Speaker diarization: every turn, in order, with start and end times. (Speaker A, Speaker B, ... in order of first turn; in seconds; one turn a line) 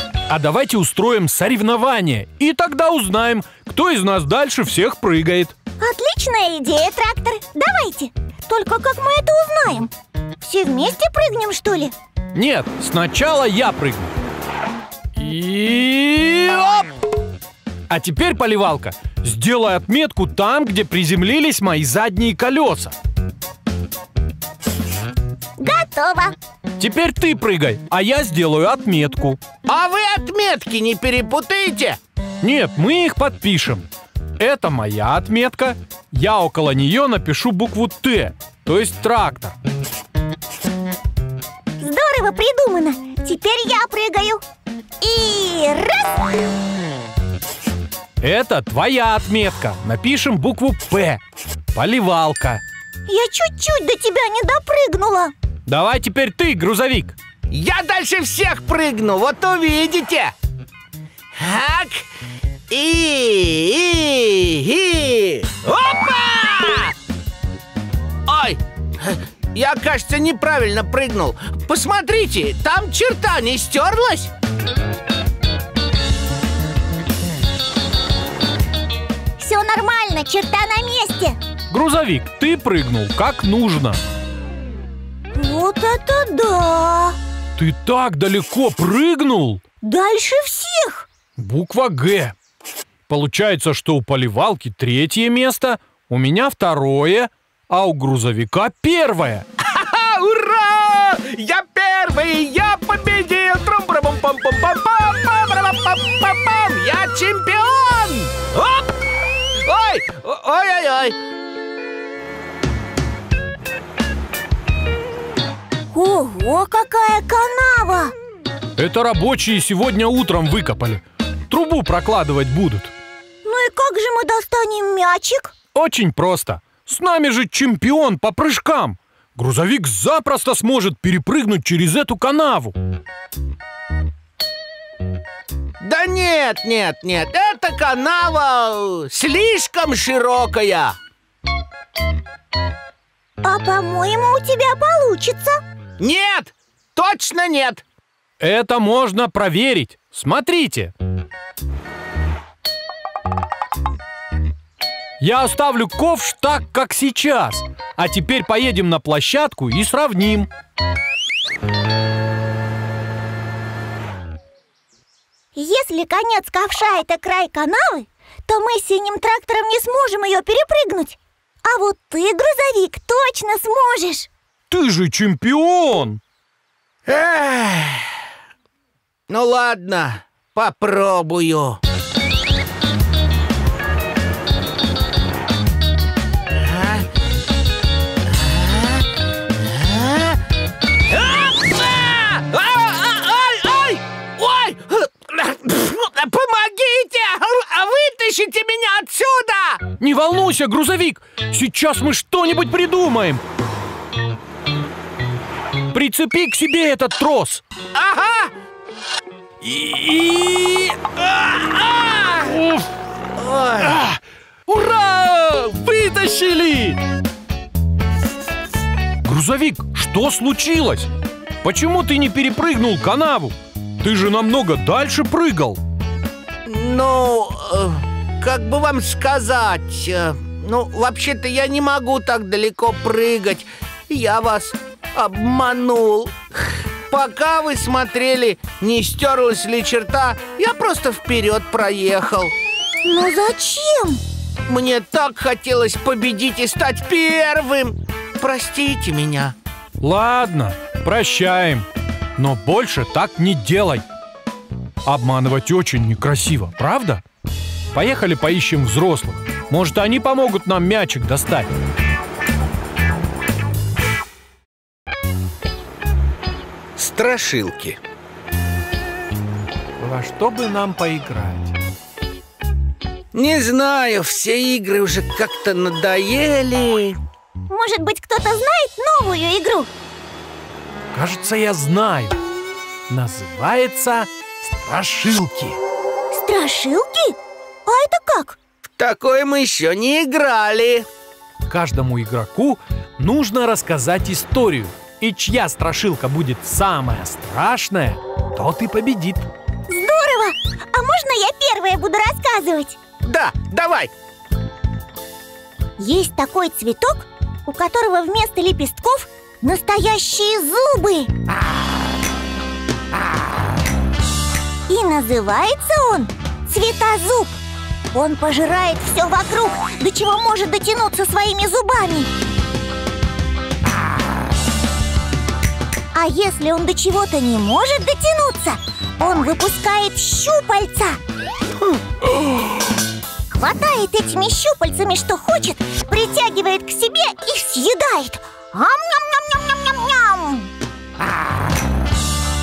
Speaker A: 0.3-5.5
Speaker B: 5.8-11.9
Speaker A: 12.3-14.1
Speaker A: 15.2-16.9
Speaker A: 17.9-22.9
Speaker B: 25.6-26.4
Speaker A: 26.8-29.4
Speaker C: 29.7-32.0
Speaker A: 32.4-33.9
Speaker A: 34.4-39.6
Speaker B: 41.8-44.4
Speaker B: 45.0-46.3
Speaker A: 48.2-51.2
Speaker A: 51.7-52.6
Speaker B: 53.1-55.3
Speaker A: 55.7-57.2
Speaker C: 57.5-60.3
Speaker C: 61.4-62.1
Speaker C: 62.7-66.9
Speaker C: 68.3-74.3
Speaker B: 79.4-81.4
Speaker A: 81.7-84.0
Speaker B: 85.3-87.2
Speaker A: 87.6-89.6
Speaker B: 89.8-91.1
Speaker A: 91.4-92.3
Speaker A: 93.1-99.5
Speaker C: 99.6-108.9
Speaker C: 109.6-111.2
Speaker B: 115.9-118.1
Speaker A: 118.8-122.9
Speaker B: 123.5-125.5
Speaker A: 125.7-132.8
Speaker C: 135.8-141.0
Speaker B: 143.4-145.6
Speaker C: 146.0-147.8
Speaker A: 148.4-150.9
Speaker A: 155.2-160.5
Speaker B: 165.6-174.3
Speaker A: 174.7-176.2
Speaker C: 177.1-178.1
Speaker C: 179.3-181.8
Speaker C: 186.6-187.1
Speaker C: 188.3-189.1
Speaker C: 189.6-190.4
Speaker C: 191.1-199.9
Speaker A: 200.0-203.4
Speaker A: 205.9-207.6
Speaker C: 207.9-208.5
Speaker A: 209.6-211.0
Speaker C: 211.1-212.6
Speaker A: 212.5-212.9
Speaker C: 213.4-214.0
Speaker A: 213.8-217.0
Speaker A: 219.2-221.1
Speaker A: 221.6-225.8
Speaker C: 226.7-236.4
Speaker C: 237.1-242.5
Speaker B: 243.1-244.2
Speaker C: 244.7-249.6
Speaker A: 250.0-254.1
Speaker A: 255.1-257.2
Speaker A: 257.9-261.7
Speaker C: 267.0-268.0
Speaker A: 270.0-271.8
Speaker C: 273.3-277.2
Speaker B: 277.7-279.9
Speaker A: 281.1-282.4
Speaker A: 283.1-285.8
Speaker B: 286.3-288.6
Speaker C: 289.0-291.1
Speaker A: 291.7-299.5
Speaker B: 299.9-303.0
Speaker C: 303.2-304.1
Speaker B: 306.0-311.3
Speaker B: 314.9-317.6
Speaker B: 318.1-322.3
Speaker B: 326.1-331.2
Speaker B: 333.5-340.7